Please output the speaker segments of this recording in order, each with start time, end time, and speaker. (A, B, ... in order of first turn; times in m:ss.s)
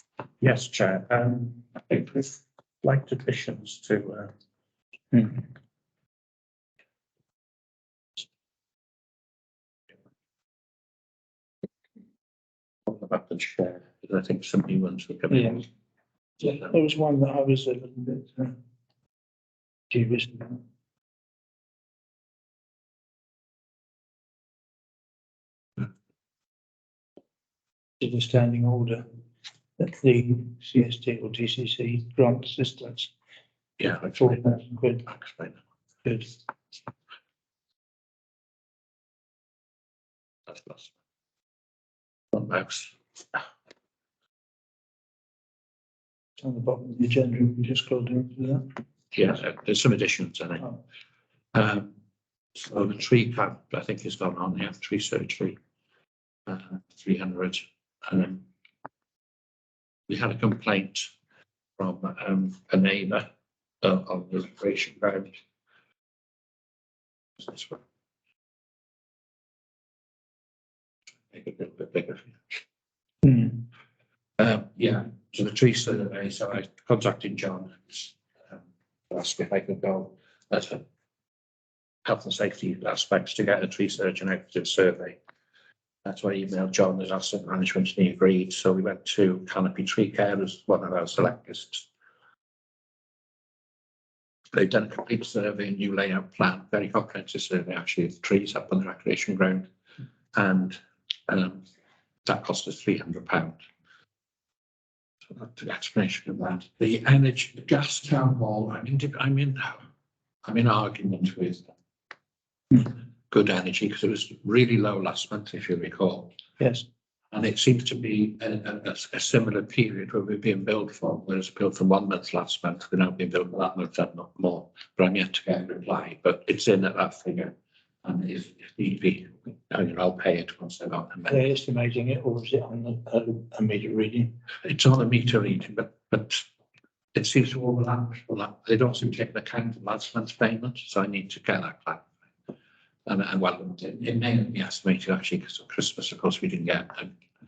0:00.4-0:04.3 A
0:05.1-0:05.4 B
0:12.9-0:15.7 A
0:15.3-0:15.6 B
0:16.4-0:18.5 B
0:16.4-0:16.7 A
0:19.9-0:20.6 B
0:28.0-0:29.0 B
0:29.8-0:33.1 B
0:33.8-0:35.6 A
0:34.1-0:35.0 B
0:36.0-0:36.4 B
0:40.5-0:40.9 A
0:42.3-0:42.9 A
0:46.4-0:48.6 B
0:49.1-0:50.7 A
0:51.5-0:51.9 A
0:52.6-0:55.6 A
0:56.5-0:58.4 A
1:00.1-1:01.1 A
1:01.8-1:03.2 A
1:03.8-1:05.3 A
1:07.4-1:07.8 A
1:11.3-1:12.3 A
1:13.2-1:13.5 B
1:14.4-1:18.2 A
1:19.1-1:20.8 A
1:22.0-1:25.2 A
1:26.0-1:31.9 A
1:34.5-1:39.7 A
1:40.3-1:41.6 A
1:42.2-1:43.6 A
1:45.3-1:49.8 A
1:50.4-1:51.7 A
1:52.8-1:56.3 A
1:56.6-1:56.8 B
1:57.3-2:11.4 A
2:11.3-2:14.3 B
2:14.6-2:16.4 A
2:17.1-2:22.1 A
2:23.0-2:27.1 A